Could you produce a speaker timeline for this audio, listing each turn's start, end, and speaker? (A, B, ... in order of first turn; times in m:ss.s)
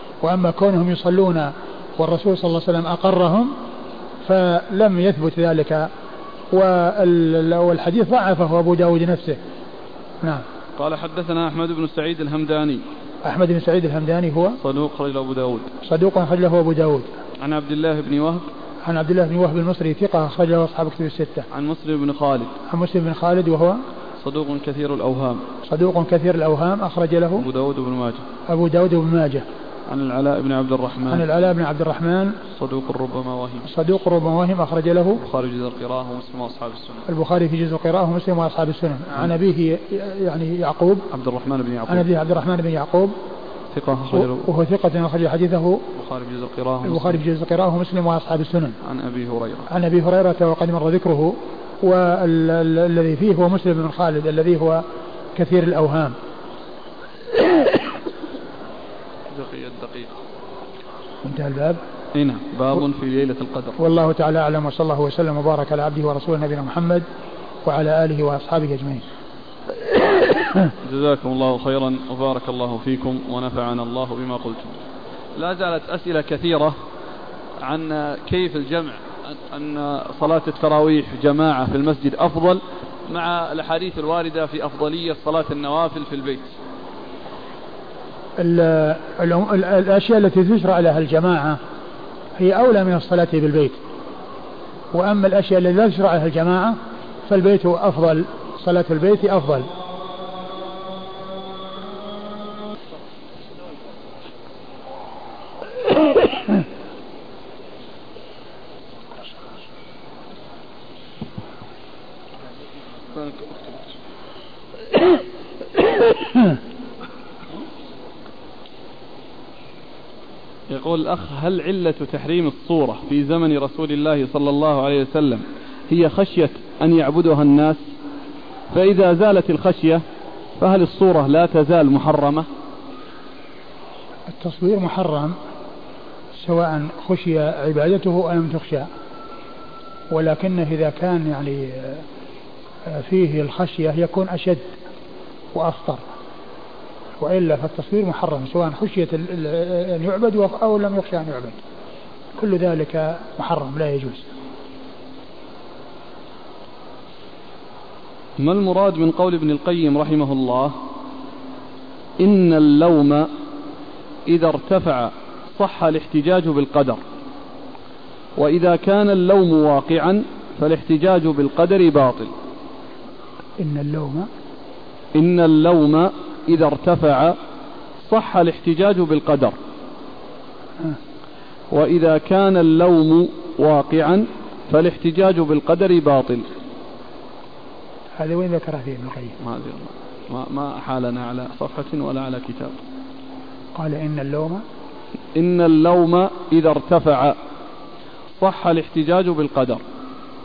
0:00.2-0:03.5 A
0:04.2-0:05.9 A
0:06.5-0:09.4 A
0:10.8-0:12.8 B
0:13.2-0:14.6 A
0:14.6-0:15.7 B
0:15.8-0:17.1 A
0:17.4-0:18.4 B
0:18.8-0:21.4 A
0:21.5-0:22.6 B
0:22.7-0:23.8 A
0:24.2-0:25.4 B
0:25.6-0:27.4 A
0:27.4-0:28.2 B
0:28.5-0:29.4 A
0:29.9-0:31.2 B
0:31.1-0:32.4 A
0:32.5-0:33.7 B
0:33.7-0:35.2 A
0:35.2-0:37.0 B
0:37.1-0:41.0 A
0:41.1-0:42.1 B
0:41.9-0:43.1 A
0:43.7-0:44.5 B
0:44.1-0:45.8 A
0:45.9-0:47.2 B
0:46.8-0:48.8 A
0:48.8-0:49.7 B
0:49.7-0:54.8 A
0:55.4-0:56.2 A
0:59.3-1:00.2 B
1:01.2-1:01.8 A
1:02.1-1:03.8 B
1:03.8-1:07.0 A
1:07.6-1:09.0 A
1:10.8-1:14.8 B
1:15.3-1:16.8 B
1:17.6-1:26.6 B
1:28.4-1:31.6 A
1:32.4-1:33.8 A
1:34.9-1:39.7 A
1:53.1-1:53.7 B
2:00.7-2:07.8 B
2:08.7-2:10.0 B
2:10.6-2:12.5 B
2:14.3-2:15.3 A
2:16.3-2:18.9 A
2:20.1-2:22.0 A
2:22.9-2:24.7 A
2:25.5-2:26.0 A
2:27.2-2:31.6 A
2:32.4-2:34.3 A
2:38.4-2:40.7 B
2:42.2-2:43.3 B
2:44.3-2:47.0 B
2:48.4-2:52.3 B
2:53.6-2:54.3 A
2:55.1-2:57.4 B
2:58.0-2:59.6 B
3:01.7-3:06.5 B
3:08.2-3:09.3 A
3:09.4-3:12.8 B
3:13.7-3:14.6 A
3:15.3-3:17.4 B
3:18.4-3:19.8 B